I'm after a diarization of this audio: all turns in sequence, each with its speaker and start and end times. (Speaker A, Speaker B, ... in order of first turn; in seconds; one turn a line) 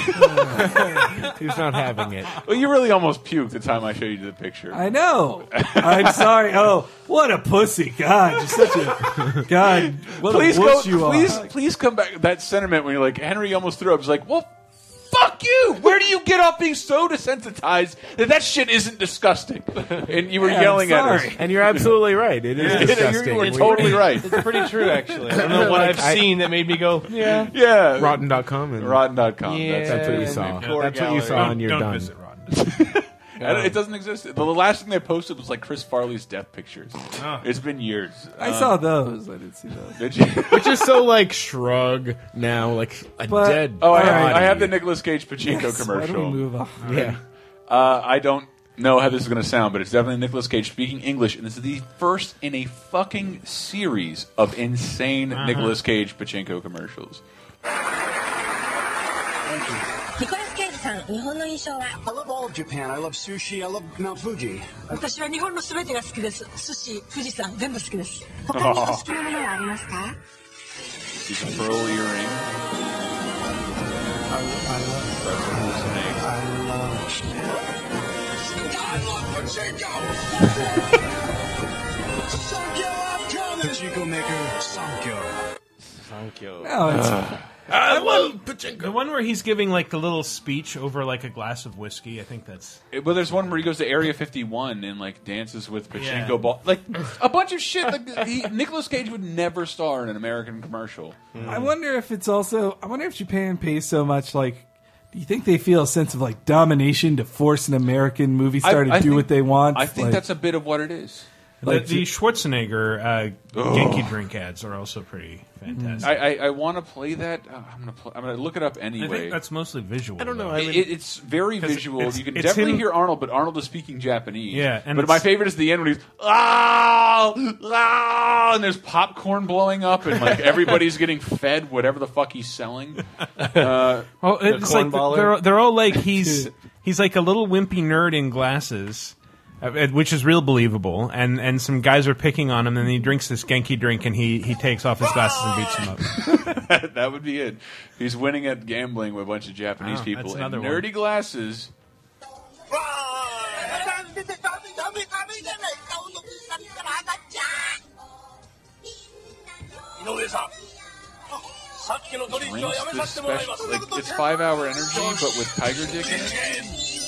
Speaker A: 0.2-0.6
Speaker B: 0.6-2.4
Speaker C: 2.4-4.9
Speaker A: 4.7-11.5
Speaker C: 5.5-6.5
Speaker C: 9.6-14.5
Speaker C: 15.1-21.8
Speaker A: 20.4-21.4
Speaker B: 21.4-24.2
Speaker C: 22.6-24.3
Speaker D: 22.6-22.9
Speaker E: 22.7-27.5
Speaker B: 25.4-26.5
Speaker C: 27.2-28.2
Speaker B: 27.9-29.0
Speaker C: 28.8-30.5
Speaker E: 29.4-31.6
Speaker B: 29.8-32.1
Speaker D: 30.5-32.7
Speaker C: 32.5-38.8
Speaker E: 33.4-33.8
Speaker D: 37.1-37.5
Speaker A: 38.4-40.0
Speaker C: 40.0-40.9
Speaker B: 40.5-44.8
Speaker A: 43.3-44.5
Speaker C: 43.8-47.1
Speaker A: 45.4-46.8
Speaker D: 46.8-47.1
Speaker B: 46.8-47.2
Speaker C: 47.7-57.2
Speaker D: 55.3-55.8
Speaker F: 59.4-59.9
Speaker G: 60.2-62.0
Speaker F: 62.0-65.0
Speaker G: 64.9-70.2
Speaker F: 68.5-69.0
Speaker C: 68.5-69.0
Speaker C: 71.2-72.5
Speaker A: 74.4-75.1
Speaker F: 74.4-75.0
Speaker C: 75.2-76.3
Speaker F: 76.2-77.6
Speaker F: 78.3-81.0
Speaker F: 82.3-85.4
Speaker E: 85.8-87.0
Speaker A: 86.6-88.3
Speaker C: 86.9-87.4
Speaker D: 87.7-92.8
Speaker B: 87.8-88.9
Speaker C: 92.9-101.3
Speaker D: 95.9-96.4
Speaker E: 101.3-101.7
Speaker A: 101.4-110.2
Speaker C: 108.6-111.2
Speaker D: 111.6-116.2
Speaker A: 111.6-112.1
Speaker C: 113.5-114.2
Speaker A: 115.7-116.1
Speaker C: 116.0-119.4
Speaker D: 119.0-120.6
Speaker B: 120.2-120.9
Speaker C: 120.5-134.2
Speaker D: 121.6-122.9
Speaker D: 124.5-125.2
Speaker E: 133.4-133.7
Speaker D: 134.2-146.5
Speaker E: 134.4-135.4
Speaker G: 145.1-145.7
Speaker C: 146.2-151.7
Speaker D: 149.8-150.9
Speaker G: 152.8-157.8
Speaker G: 160.0-160.3
Speaker F: 160.0-160.4
Speaker F: 161.9-164.2
Speaker C: 162.3-166.5
Speaker G: 163.5-163.9
Speaker F: 164.9-165.2
Speaker F: 166.1-166.7